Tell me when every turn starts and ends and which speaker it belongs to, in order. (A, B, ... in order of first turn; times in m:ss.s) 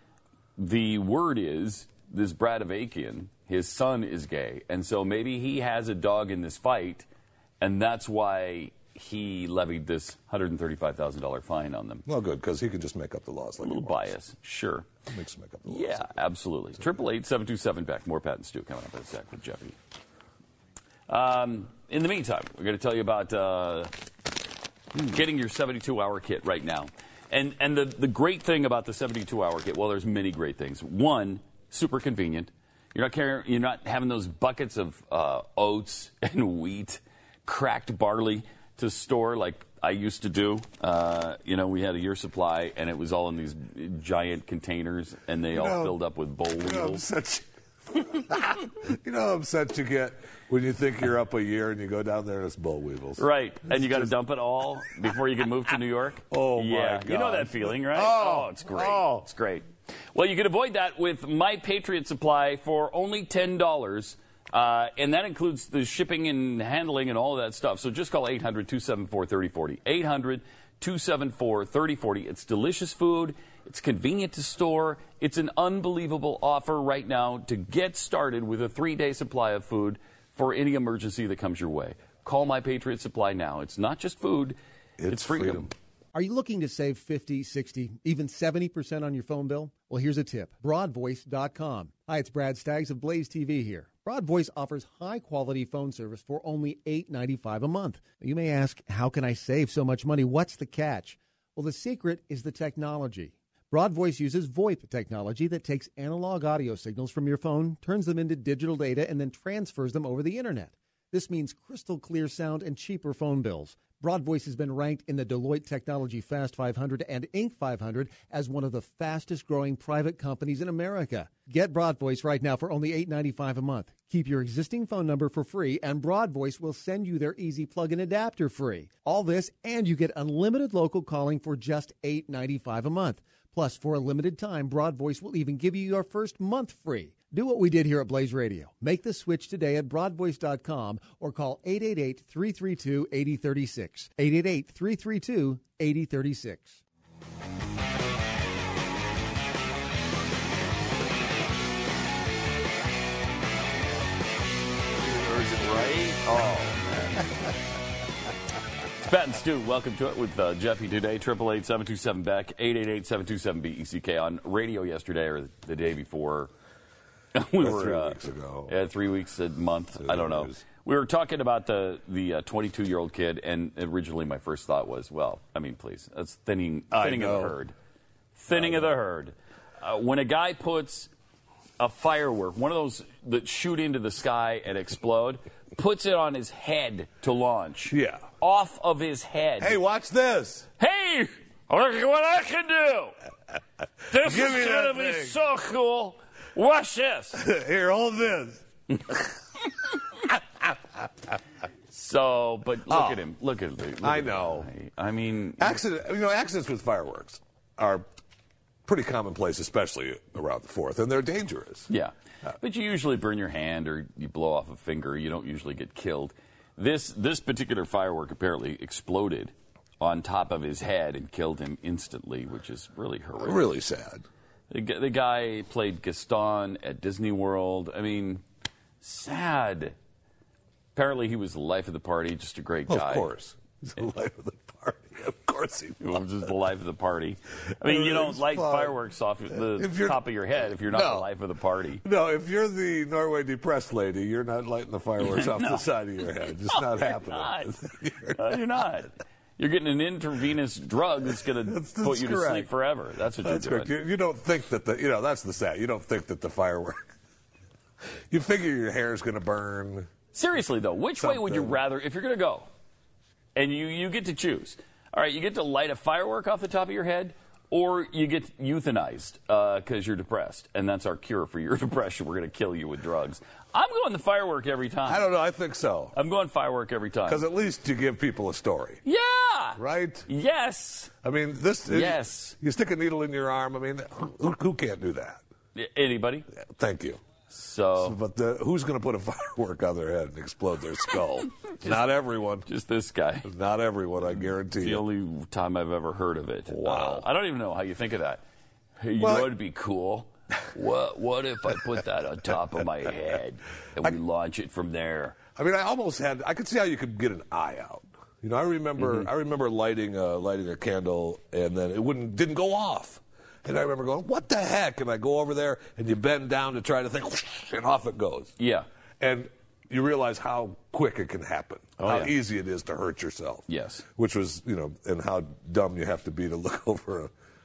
0:00.6-0:07.1 A
0:07.6-0:12.0 A
0:12.0-0:14.0 B
0:13.6-0:14.9 A
0:15.1-0:16.1 B
0:15.6-0:19.8 A
0:21.1-0:23.9 A
0:25.0-0:47.0 A
0:45.5-0:46.0 B
0:46.6-0:54.1 B
0:53.2-1:25.7 A
0:56.3-0:59.2 B
1:25.0-1:25.7 B
1:26.1-2:26.8 C
2:35.1-2:37.3 A
2:39.0-2:46.5 A
2:47.3-2:57.7 A
2:47.6-2:48.8 B
2:50.0-2:50.6 B
2:56.9-2:57.6 B
2:58.4-3:01.1 A
2:58.5-2:58.9 B
3:01.8-3:09.8 A
3:07.9-3:08.3 B
3:09.6-3:10.7 B
3:10.8-3:13.1 A
3:14.1-3:17.4 A
3:14.1-3:15.4 B
3:17.3-3:18.6 B
3:21.9-3:25.7 A
3:22.9-3:23.2 B
3:24.0-3:24.7 B
3:25.6-3:28.1 B
3:28.8-3:31.9 B
3:31.9-3:43.6 A
3:43.4-3:44.2 B
3:44.7-3:48.4 A
3:49.0-3:50.0 A
3:50.9-3:53.3 A
3:52.9-3:56.2 B
3:56.0-4:02.0 A
3:57.8-3:59.0 B
3:59.5-4:00.2 B
4:00.9-4:01.2 B
4:02.0-4:08.6 B
4:05.2-4:05.9 A
4:06.6-4:13.9 A
4:11.4-4:12.7 B
4:13.4-4:17.0 B
4:18.3-4:20.1 B
4:20.3-4:22.7 A
4:21.2-4:21.8 B
4:23.5-4:35.3 A
4:35.0-4:36.1 B
4:36.1-4:37.4 A
4:37.3-4:39.0 B
4:39.0-4:41.1 A
4:39.8-4:40.3 B
4:41.2-4:45.4 B
4:41.9-4:42.6 A
4:45.7-4:46.4 A
4:46.5-4:47.2 B
4:47.5-4:48.2 A
4:48.0-4:52.7 B
4:52.6-4:53.5 A
4:53.4-4:55.0 B
4:54.2-4:58.4 A
4:56.7-4:57.2 B
4:59.0-5:05.4 A
4:59.2-4:59.5 B
5:05.5-5:18.5 B
5:09.0-5:09.3 A
5:18.6-5:18.8 A
5:19.2-5:27.3 B
5:22.0-5:22.4 A
5:23.7-5:24.0 A